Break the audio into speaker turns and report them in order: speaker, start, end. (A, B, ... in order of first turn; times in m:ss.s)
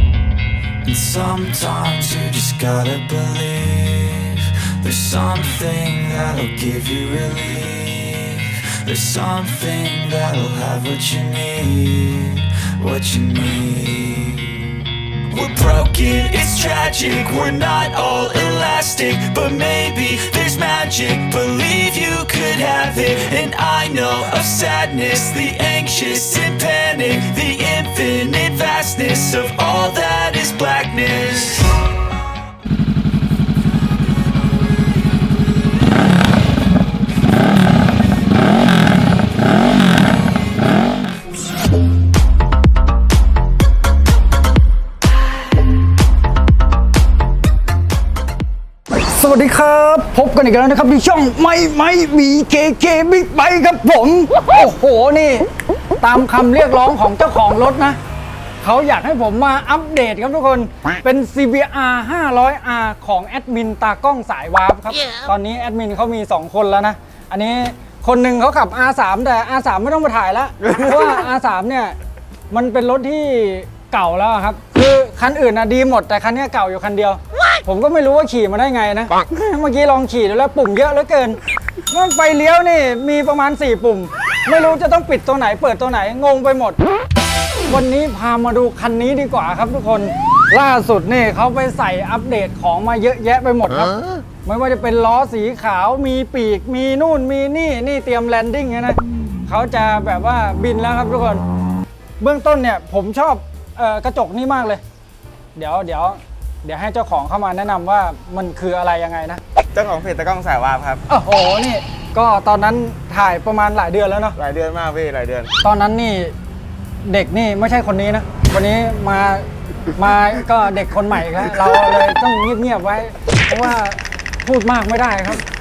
0:00.8-0:14.7 A
0:15.3-0:32.0 A
0:49.0-0:55.5 B
0:56.0-0:58.0 B
0:58.6-1:12.0 B
1:10.6-1:11.2 C
1:12.5-1:26.8 B
1:27.6-1:41.4 B
1:42.2-1:44.8 B
1:45.5-1:49.4 B
1:49.7-1:51.0 C
1:51.1-1:54.4 B
1:54.3-1:55.5 C
1:55.6-1:56.3 B
1:57.0-2:05.4 B